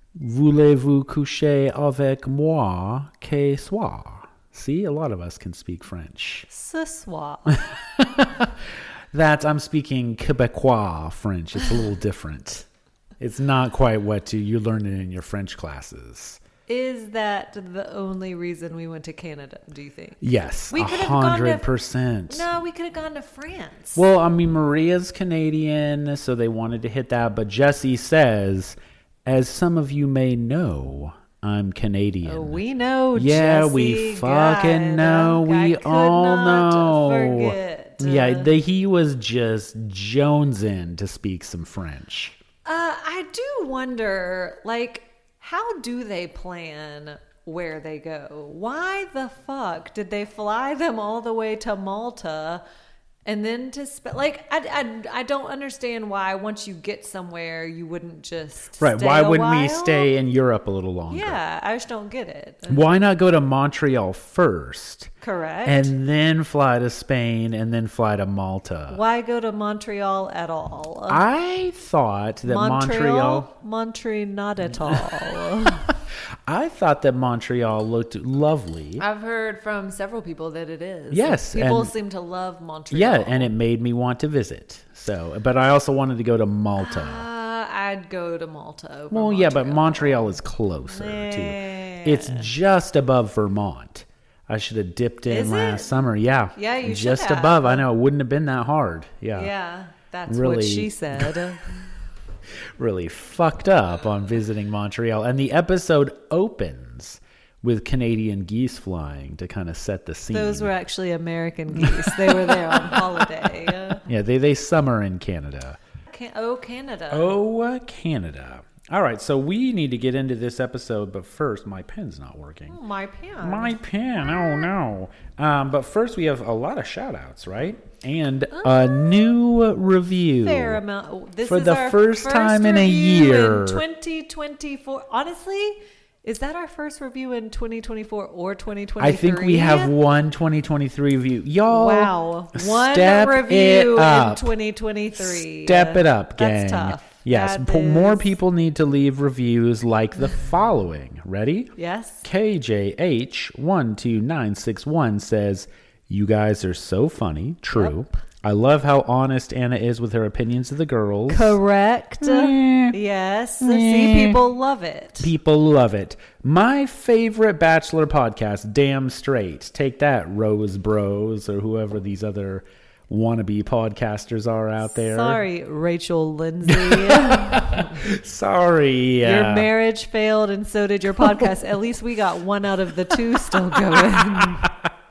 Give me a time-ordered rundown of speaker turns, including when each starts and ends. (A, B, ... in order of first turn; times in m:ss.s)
0:00.2-0:06.5 A
0:06.5-0:07.6 B
0:08.0-0:08.5 A
0:09.1-0:12.7 A
0:13.2-0:16.4 A
0:16.7-0:21.7 B
0:20.2-0:22.5 A
0:22.3-0:24.0 B
0:24.0-0:32.6 A
0:32.2-0:38.5 B
0:33.2-0:42.4 A
0:42.6-0:52.6 B
0:53.3-1:00.1 B
0:58.8-1:01.4 A
1:01.1-1:02.9 B
1:02.7-1:05.1 A
1:05.2-1:05.9 B
1:05.6-1:09.0 A
1:08.9-1:11.2 B
1:11.1-1:13.5 A
1:12.4-1:15.9 B
1:14.8-1:16.0 A
1:16.5-1:19.0 A
1:19.0-1:23.5 B
1:21.1-1:21.9 A
1:22.9-1:27.3 A
1:26.8-1:32.5 B
1:29.1-1:39.5 A
1:35.3-1:37.9 B
1:39.3-1:41.7 B
1:40.3-1:41.5 A
1:42.8-1:50.7 A
1:50.3-1:54.0 B
1:51.8-1:53.2 A
1:54.0-1:55.8 A
1:56.1-1:57.4 B
1:57.1-2:02.8 A
2:02.7-2:04.7 B
2:03.4-2:10.8 A
2:08.5-2:09.3 B
2:10.4-2:19.9 B
2:11.5-2:13.8 A
2:19.0-2:24.5 A
2:21.7-2:28.4 B
2:25.2-2:31.7 A
2:31.8-2:32.3 B
2:32.2-2:41.6 A
2:37.7-2:38.1 B
2:41.3-2:45.3 B
2:42.2-2:43.0 A
2:43.6-2:44.4 A
2:45.2-2:55.4 A
2:54.9-2:58.0 B
2:56.7-2:59.7 A
2:59.2-3:04.7 B
3:01.2-3:01.5 A
3:03.5-3:04.9 A